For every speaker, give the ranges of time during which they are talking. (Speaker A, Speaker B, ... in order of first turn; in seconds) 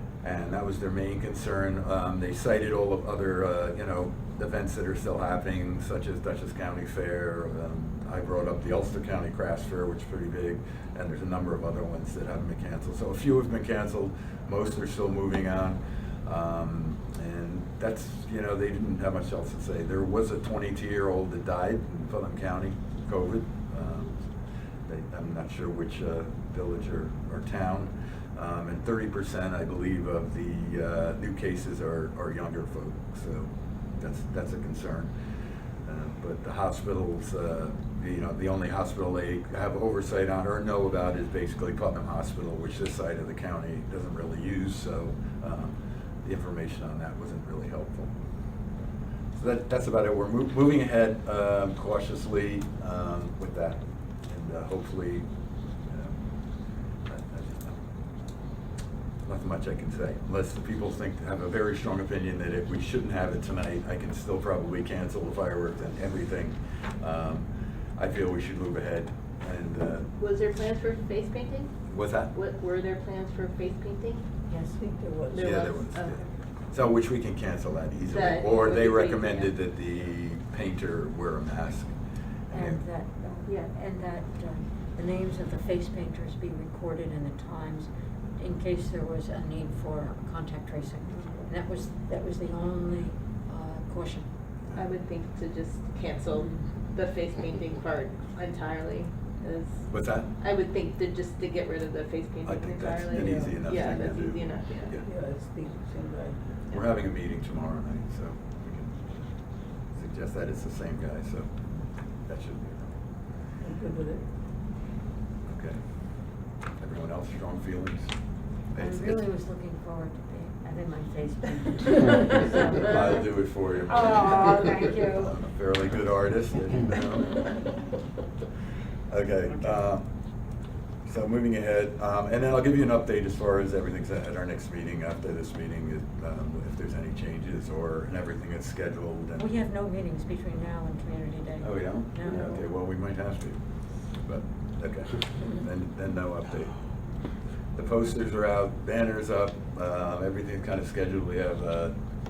Speaker A: 0.2-24.2, 24.9-35.1, 35.9-48.1, 49.3-55.3, 55.9-56.2, 57.1-57.8, 59.3-70.1, 71.9-72.3, 75.4-81.9, 82.5-82.8, 99.9-100.3, 102.5-105.0, 106.7-109.3, 109.9-111.5, 112.3-113.0, 115.5-115.8, 116.8-118.1, 118.7-119.2, 122.6-127.5, 129.1-130.1, 131.1-139.5, 141.6-143.6, 144.2-146.7, 147.8-151.9
Speaker B: 70.2-71.8, 72.3-74.3, 75.3-76.2, 78.1-79.5, 83.5-83.7, 94.7-105.0
Speaker C: 74.5-74.8, 82.5-94.3, 96.3-96.6, 118.8-123.3, 123.9-125.4, 139.4-142.6
Speaker D: 74.8-75.5, 103.2-103.5, 104.9-106.5, 113.6-114.2